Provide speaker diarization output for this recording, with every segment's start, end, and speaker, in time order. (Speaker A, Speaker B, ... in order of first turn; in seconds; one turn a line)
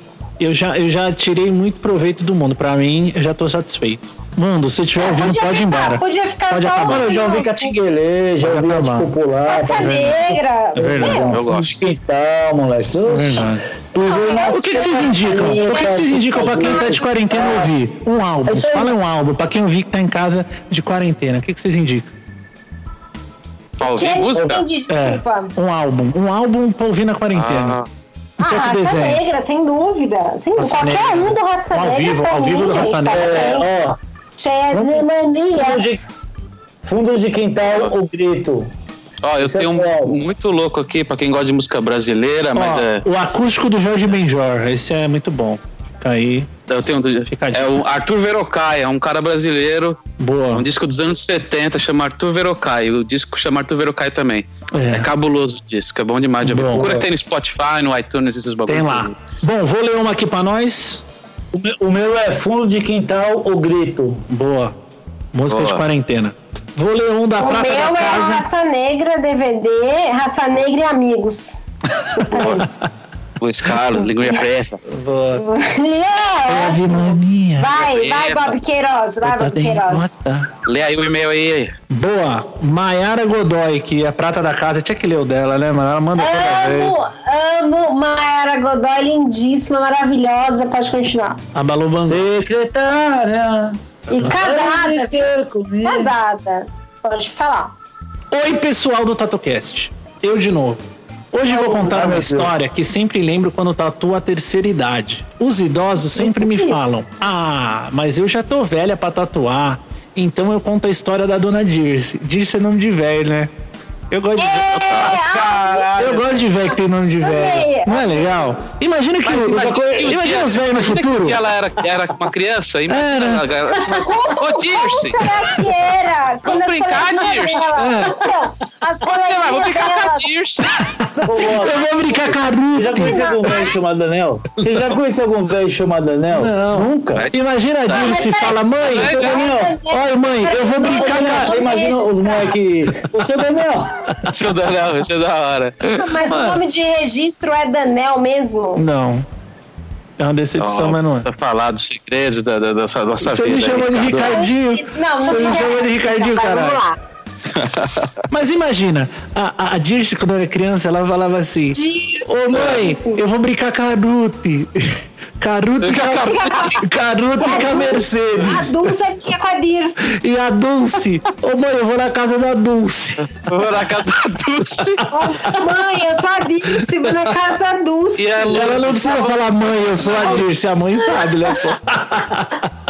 Speaker A: 0.4-7.1
Speaker B: 5.0-7.7
Speaker C: 6.8-17.7
Speaker A: 8.4-9.1
Speaker B: 9.4-11.3
Speaker A: 9.8-10.1
Speaker A: 10.8-11.2
Speaker D: 11.3-11.9
Speaker A: 13.1-13.6
Speaker B: 14.0-17.1
Speaker A: 14.4-22.1
Speaker C: 18.5-18.8
Speaker D: 23.8-24.6
Speaker B: 23.8-25.5
Speaker A: 24.9-27.8
Speaker D: 27.3-27.9
Speaker B: 28.4-33.7
Speaker A: 28.4-29.2
Speaker A: 30.6-33.6
Speaker C: 32.8-34.0
Speaker B: 34.4-36.0
Speaker C: 34.7-35.0
Speaker C: 35.5-36.0
Speaker C: 36.8-38.7
Speaker D: 39.2-43.0
Speaker C: 39.4-40.2
Speaker A: 42.5-46.5
Speaker D: 46.7-50.0
Speaker A: 47.3-47.8
Speaker A: 50.2-50.7
Speaker D: 50.5-59.2
Speaker A: 54.7-55.1
Speaker A: 56.4-57.0
Speaker A: 58.7-61.0
Speaker C: 61.5-64.2
Speaker A: 64.3-64.7
Speaker A: 65.3-68.5
Speaker D: 65.5-65.8
Speaker B: 67.4-71.6
Speaker B: 72.1-72.6
Speaker A: 72.2-72.7
Speaker D: 72.3-72.6
Speaker D: 73.4-74.8
Speaker A: 74.8-75.4
Speaker B: 75.3-80.1
Speaker A: 76.5-77.8
Speaker D: 77.7-78.6
Speaker A: 79.2-80.5
Speaker D: 80.6-81.7
Speaker A: 81.9-87.0
Speaker B: 86.2-91.4
Speaker A: 91.5-92.2
Speaker C: 91.9-96.1
Speaker B: 94.1-95.3
Speaker B: 95.8-97.7
Speaker A: 98.3-113.5
Speaker C: 101.5-102.5
Speaker B: 106.2-106.8
Speaker A: 114.1-115.1
Speaker B: 114.4-116.1
Speaker D: 114.8-115.2
Speaker C: 115.1-116.4
Speaker A: 116.0-121.4
Speaker B: 117.2-118.4
Speaker D: 119.2-125.2
Speaker C: 119.4-120.0
Speaker A: 122.9-123.4
Speaker B: 123.7-130.3
Speaker D: 126.4-127.7
Speaker A: 127.7-128.2
Speaker D: 129.0-130.8
Speaker A: 130.8-133.3
Speaker B: 131.2-131.7
Speaker C: 131.3-137.3
Speaker B: 132.9-133.8
Speaker A: 134.6-134.8
Speaker A: 136.3-139.2
Speaker D: 137.8-139.4
Speaker B: 137.9-142.6
Speaker C: 139.1-139.8
Speaker A: 139.8-141.6
Speaker C: 140.8-143.9
Speaker D: 144.2-146.1
Speaker B: 145.9-148.8
Speaker A: 146.3-146.6
Speaker A: 148.8-149.2
Speaker A: 150.2-151.3
Speaker D: 150.6-154.4
Speaker A: 153.2-156.8
Speaker B: 154.2-157.0
Speaker D: 157.5-158.1
Speaker A: 158.3-168.9
Speaker B: 161.7-163.2
Speaker D: 165.8-166.8
Speaker B: 166.2-166.8
Speaker B: 167.4-170.0
Speaker A: 170.1-173.3
Speaker D: 173.4-175.0
Speaker A: 175.0-175.6
Speaker B: 175.1-178.8
Speaker A: 176.7-177.3
Speaker D: 178.2-180.4
Speaker A: 178.4-182.7